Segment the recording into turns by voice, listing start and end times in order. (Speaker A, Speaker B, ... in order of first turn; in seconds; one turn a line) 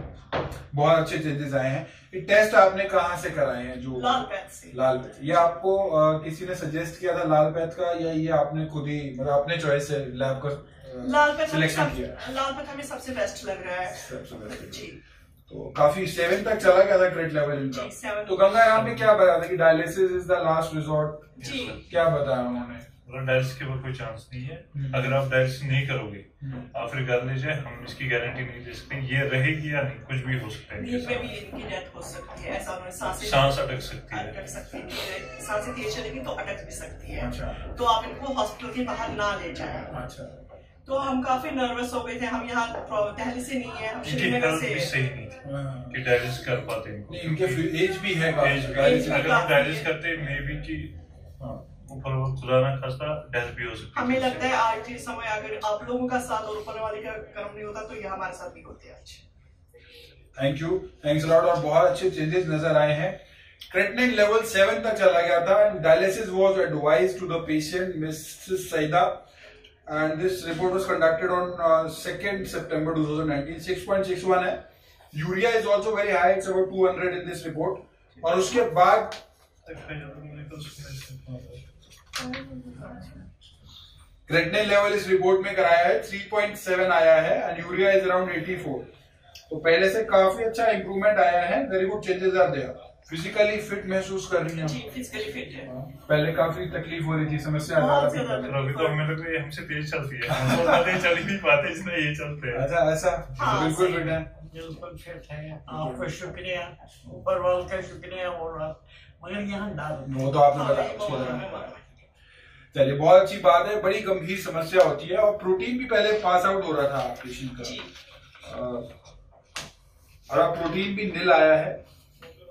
Speaker A: 0.7-12.2
Speaker B: 3.9-4.8
Speaker B: 11.0-15.0
Speaker A: 13.9-14.9
Speaker A: 15.5-22.9
Speaker B: 17.7-18.6
Speaker C: 18.7-19.1
Speaker C: 21.4-21.9
Speaker B: 21.4-21.8
Speaker C: 23.0-31.3
Speaker A: 24.7-25.2
Speaker A: 26.4-26.7
Speaker B: 30.8-39.9
Speaker C: 33.2-34.3
Speaker A: 37.2-37.6
Speaker A: 39.9-40.4
Speaker B: 40.9-44.9
Speaker C: 44.0-47.7
Speaker A: 45.4-46.0
Speaker A: 47.1-49.3
Speaker C: 48.4-51.0
Speaker B: 48.8-49.9
Speaker C: 51.7-54.5
Speaker B: 54.0-59.2
Speaker A: 60.4-69.3
Speaker A: 69.9-74.6
Speaker A: 75.1-79.2
Speaker C: 79.7-81.6
Speaker B: 82.2-83.2
Speaker A: 84.3-88.9
Speaker A: 89.5-94.8
Speaker B: 94.6-95.7
Speaker A: 95.6-98.5
Speaker B: 97.7-99.0
Speaker C: 98.4-102.7
Speaker A: 100.3-101.0
Speaker A: 102.5-104.3
Speaker B: 103.4-104.2
Speaker D: 104.3-111.2
Speaker A: 105.8-106.0
Speaker A: 110.0-111.5
Speaker B: 110.5-111.8
Speaker A: 112.7-117.8
Speaker B: 117.6-117.9
Speaker A: 118.4-118.9
Speaker A: 120.3-121.8